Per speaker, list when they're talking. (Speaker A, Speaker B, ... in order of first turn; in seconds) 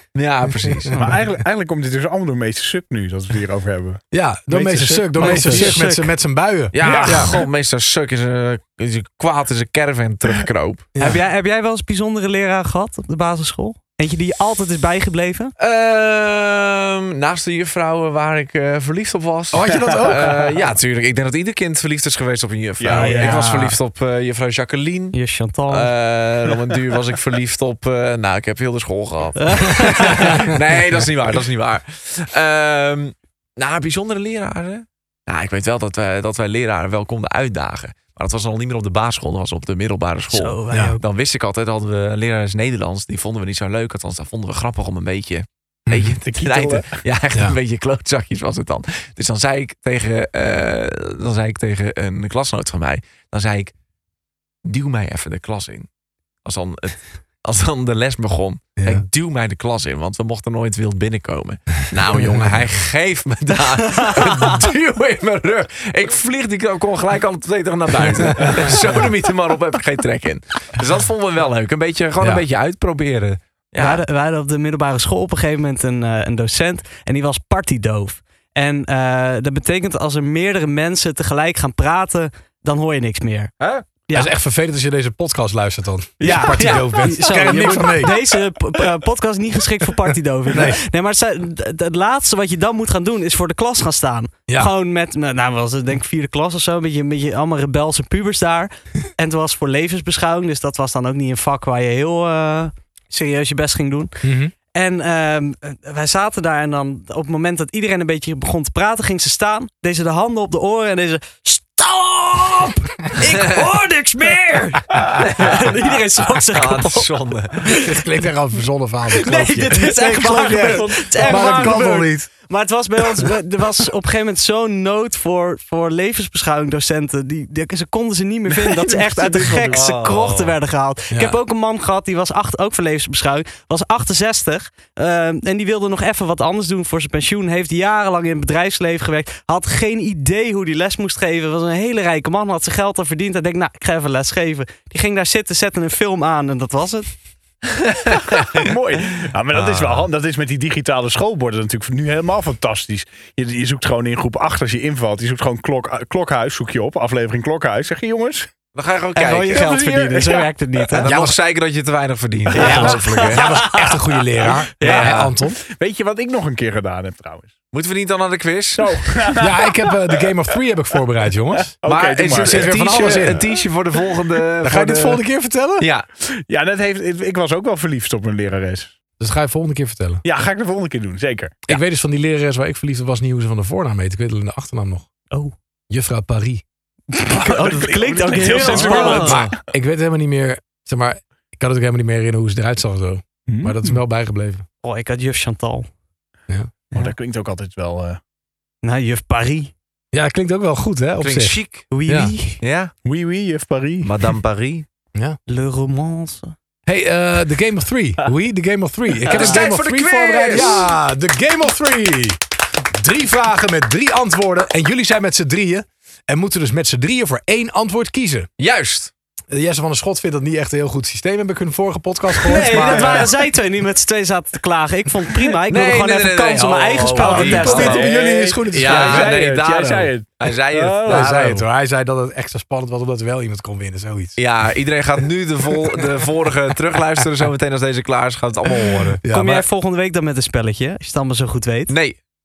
Speaker A: 0.1-0.9, 5.2-5.6, 6.7-10.9, 15.6-25.2, 25.7-53.7, 54.6-55.9, 56.4-74.0, 83.6-83.8, 113.2-113.6, 115.2-115.7, 116.5-117.8, 129.7-130.6, 148.0-148.6, 149.5-150.1, 158.7-159.7, 160.9-163.4, 164.8-165.3, 167.7-169.1, 171.8-175.2, 175.8-176.1, 188.6-189.5, 201.2-201.9, 202.6-202.9, 204.0-204.8, 209.2-210.9, 218.6-219.1, 225.7-228.2, 228.7-231.6, 234.4-239.2, 241.9-242.2
Speaker B: 0.6-0.9, 4.1-7.3, 10.9-11.2, 19.5-20.4, 45.9-46.2, 58.8-59.0, 62.1-62.6, 84.1-88.1, 90.5-90.8, 104.2-104.5, 117.7-122.3, 161.1-161.3, 162.5-165.6, 169.4-171.7, 172.3-173.4, 174.6-175.9, 179.2-180.2, 181.7-185.1, 185.9-186.6, 189.2-194.6, 200.1-202.3, 206.8-212.4, 212.9-218.5, 219.5-223.3, 227.2-229.4, 231.1-234.4, 239.2-239.7
Speaker C: 0.9-4.0, 4.5-5.7, 6.8-7.4, 19.9-20.4, 22.8-23.4, 46.1-47.0, 86.2-86.8, 120.2-121.9, 128.5-129.9, 148.4-158.5, 159.6-161.0, 165.6-167.5, 168.8-170.0, 171.7-173.4, 176.2-178.9, 180.2-181.6, 187.2-189.5, 193.5-194.0, 196.9-198.2, 203.0-204.1, 222.6-223.3, 227.4-231.6
Speaker D: 5.1-6.1, 11.0-15.5, 22.9-23.8, 25.1-25.9, 29.4-30.5, 40.3-41.0, 64.0-64.4, 73.8-83.5, 86.2-104.2, 104.7-117.1, 117.6-118.0, 119.2-147.1, 159.1-161.1, 162.5-164.2, 164.8-165.2, 187.1-189.4, 194.8-195.9, 198.8-199.7, 201.9-202.6, 205.5-206.5, 222.4-228.1, 239.3-241.9